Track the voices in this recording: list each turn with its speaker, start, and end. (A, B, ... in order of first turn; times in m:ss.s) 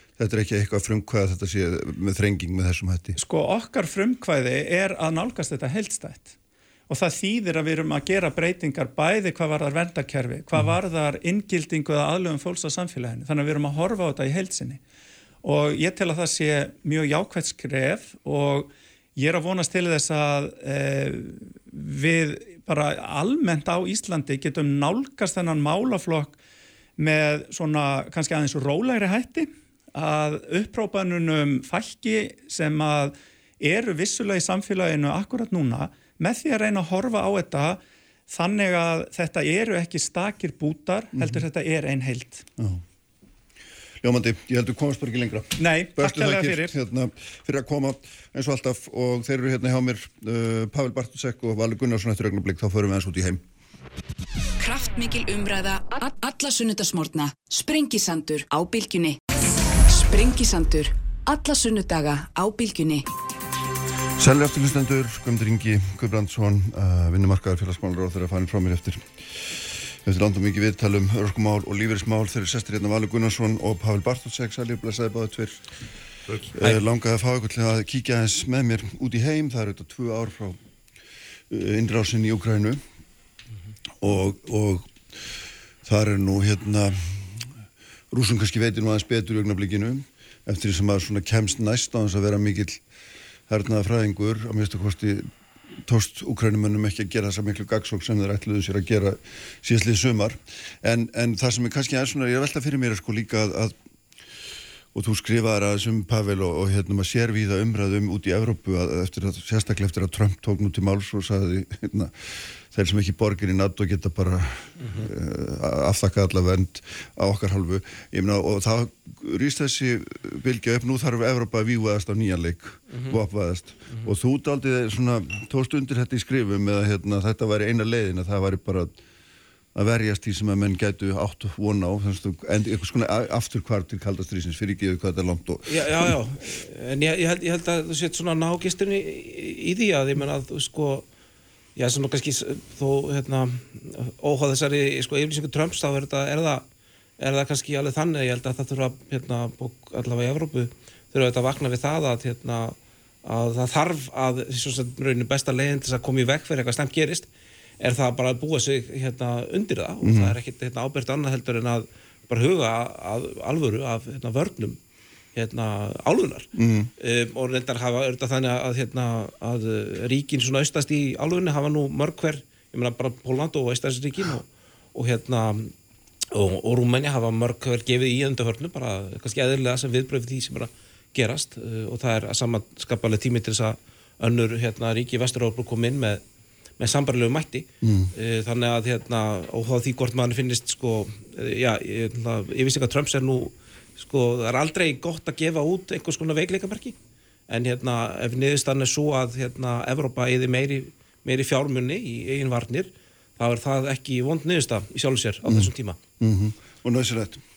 0:00.2-0:03.2 A
0:03.2-0:06.4 B
0:06.9-0:14.8 B
0:15.4-0:26.4 B
0:27.0-0:42.5 B
0:41.2-0:41.4 A
0:44.0-0:53.4 A
0:45.6-0:46.8 B
0:54.6-0:59.2 C
0:59.8-1:03.0 C
1:04.2-1:15.6 A
1:16.5-1:20.6 A
1:21.5-1:22.8 A
1:24.0-1:25.0 A
1:25.8-1:27.5 A
1:28.1-1:32.8 A
1:33.5-1:35.3 A
1:35.8-1:43.8 A
1:44.9-2:09.0 A
2:09.8-2:16.2 A
2:15.7-2:21.1 D
2:21.8-2:26.6 D
2:27.2-2:37.3 D
2:37.8-2:44.8 D
2:40.0-2:40.4 A
2:45.3-2:55.7 D
2:46.6-2:46.9 A
2:56.3-3:06.2 D
3:06.8-3:17.0 D
3:07.8-3:08.1 A
3:17.5-3:26.0 D
3:25.4-3:27.4 A